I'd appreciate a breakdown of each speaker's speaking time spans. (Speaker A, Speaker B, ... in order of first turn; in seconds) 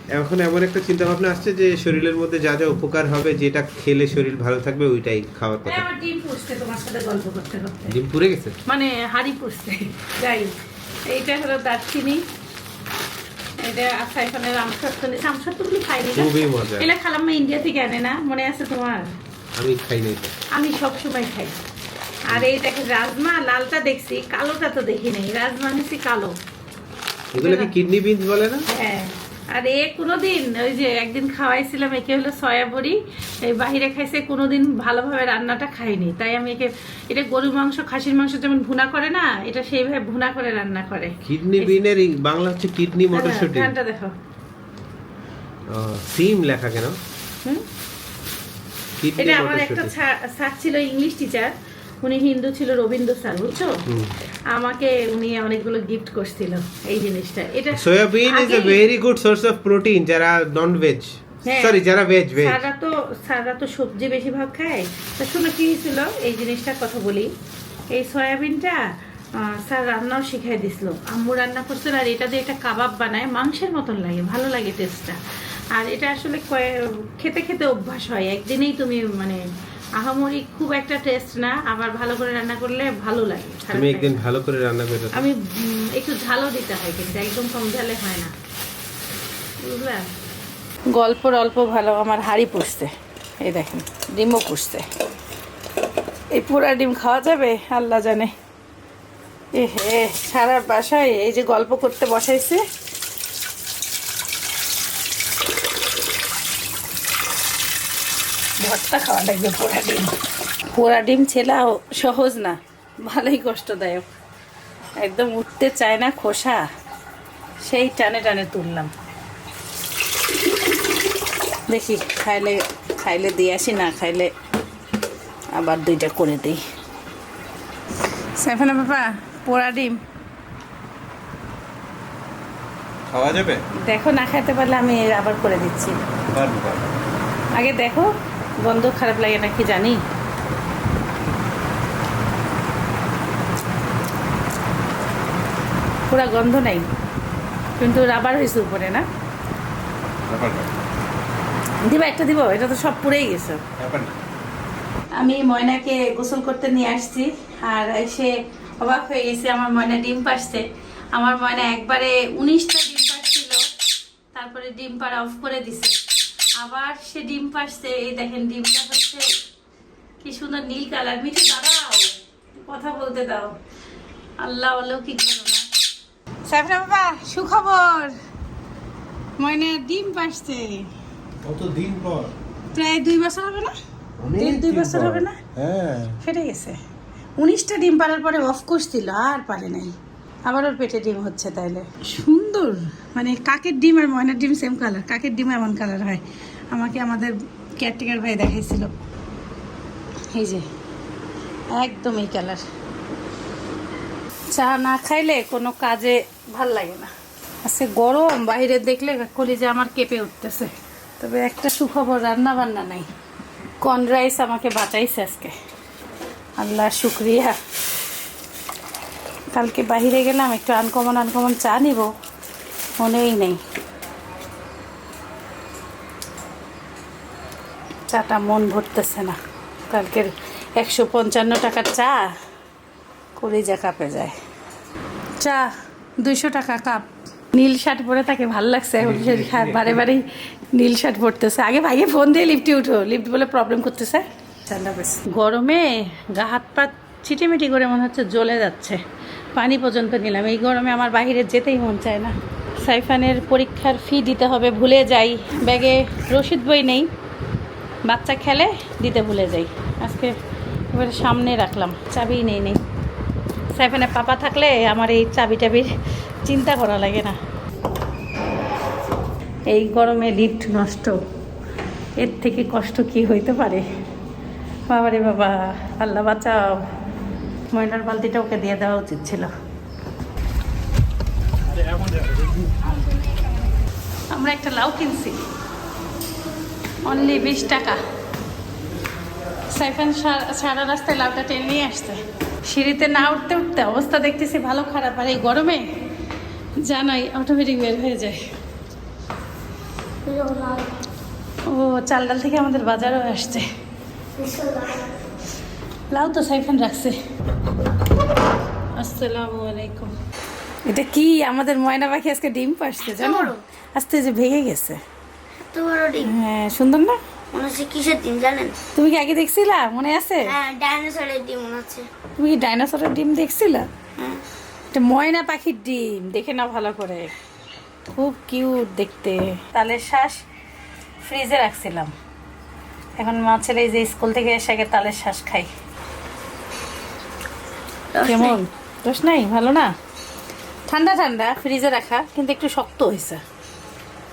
Speaker A: 0.2-5.8, 7.9-8.6, 16.1-16.9, 19.6-20.4, 27.4-28.7, 41.2-43.7, 45.7-47.0, 49.0-49.9, 53.9-54.1, 57.7-62.6, 83.7-85.3, 133.1-133.6, 136.3-136.9, 150.3-150.7, 153.8-154.1, 181.4-182.3, 184.2-186.2, 239.0-240.0
Speaker B: 5.7-8.0, 8.7-10.5, 11.1-12.2, 13.6-19.1, 20.5-21.6, 22.3-26.4, 27.4-27.7, 28.7-41.8, 43.1-44.1, 49.2-53.8, 54.5-58.8, 61.5-61.8, 62.4-67.3, 67.9-68.9, 69.4-75.2, 75.8-79.4, 80.0-84.2, 85.1-88.3, 89.6-90.1, 90.9-94.9, 96.3-98.3, 99.5-102.6, 108.6-110.1, 110.7-114.0, 115.0-116.7, 117.6-118.9, 121.7-124.3, 125.5-126.6, 128.4-130.0, 133.9-136.0, 137.6-138.1, 138.6-140.0, 146.1-146.9, 147.8-149.1, 151.8-153.6, 155.2-163.6, 164.3-165.9, 166.6-169.3, 170.2-173.5, 174.4-175.7, 176.5-178.2, 179.4-180.9, 182.7-183.7, 184.4-185.4, 186.2-186.8, 187.4-189.9, 190.5-198.9, 200.3-200.7, 201.8-202.6, 204.5-207.1, 207.6-213.1, 213.8-215.5, 216.6-217.6, 219.5-222.1, 223.0-223.6, 228.1-229.4, 229.9-232.3, 233.4-234.3, 235.4-249.0, 249.6-257.1, 258.1-260.3, 260.9-262.8, 263.8-265.9, 266.5-267.4, 269.7-271.2, 272.2-273.9, 274.9-276.9, 277.7-279.5, 284.3-285.4, 287.1-288.0, 289.7-295.9, 296.8-298.4, 301.7-303.6, 306.1-307.2, 309.0-310.1, 310.9-315.0, 316.3-317.2, 318.9-320.6, 322.4-323.9, 324.9-327.3, 328.1-330.4, 331.2-332.1, 333.2-335.7, 338.2-339.9, 340.9-343.4
Speaker C: 300.2-300.9, 304.4-305.1, 313.1-313.6, 315.7-316.3, 317.5-318.8, 320.4-322.1, 338.1-338.6